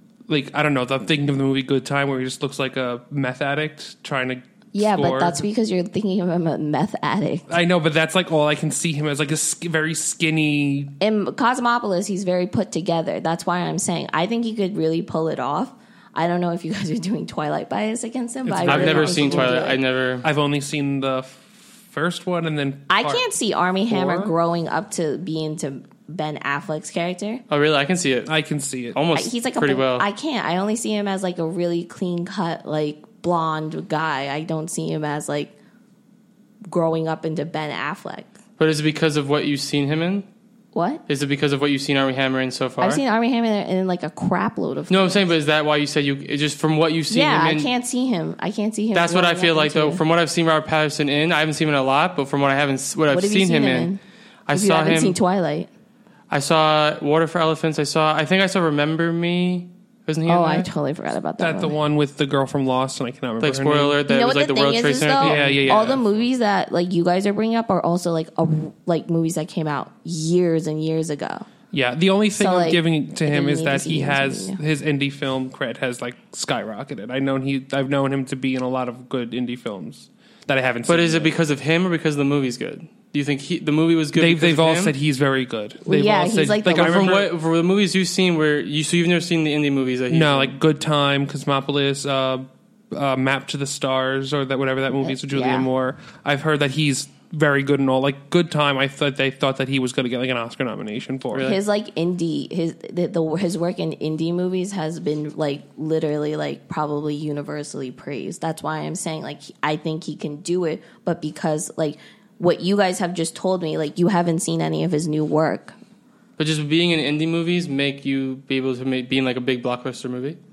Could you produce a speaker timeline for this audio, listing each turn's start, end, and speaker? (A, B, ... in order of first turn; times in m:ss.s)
0:00.3-0:05.5 A
0:04.7-0:07.5 B
0:07.5-0:10.9 A
0:11.0-0:19.8 B
0:18.4-0:19.6 A
0:18.7-0:20.3 C
0:20.2-0:23.2 A
0:22.9-0:27.4 B
0:23.9-0:24.3 A
0:27.5-0:28.3 C
0:28.3-0:29.0 A
0:28.9-0:30.1 C
0:29.1-0:35.5 B
0:36.7-0:38.3 B
0:38.6-0:40.3 C
0:40.7-0:41.0 B
0:41.1-0:43.0 C
0:42.8-0:45.3 B
0:44.9-0:47.7 C
0:47.1-0:50.0 B
0:48.9-0:53.9 C
0:53.1-0:54.0 B
0:54.5-0:55.2 C
0:54.5-0:55.7 B
0:56.3-1:00.7 C
1:00.3-1:01.8 B
1:01.4-1:04.0 A
1:03.4-1:06.0 C
1:04.1-1:11.5 B
1:05.2-1:06.0 A
1:11.7-1:21.4 A
1:12.4-1:14.6 B
1:20.9-1:25.0 C
1:24.2-1:27.3 A
1:25.8-1:27.2 B
1:26.7-1:30.5 C
1:30.1-1:41.5 A
1:35.0-1:35.7 B
1:41.3-1:41.6 C
1:41.4-1:55.8 B
1:56.4-2:00.4 C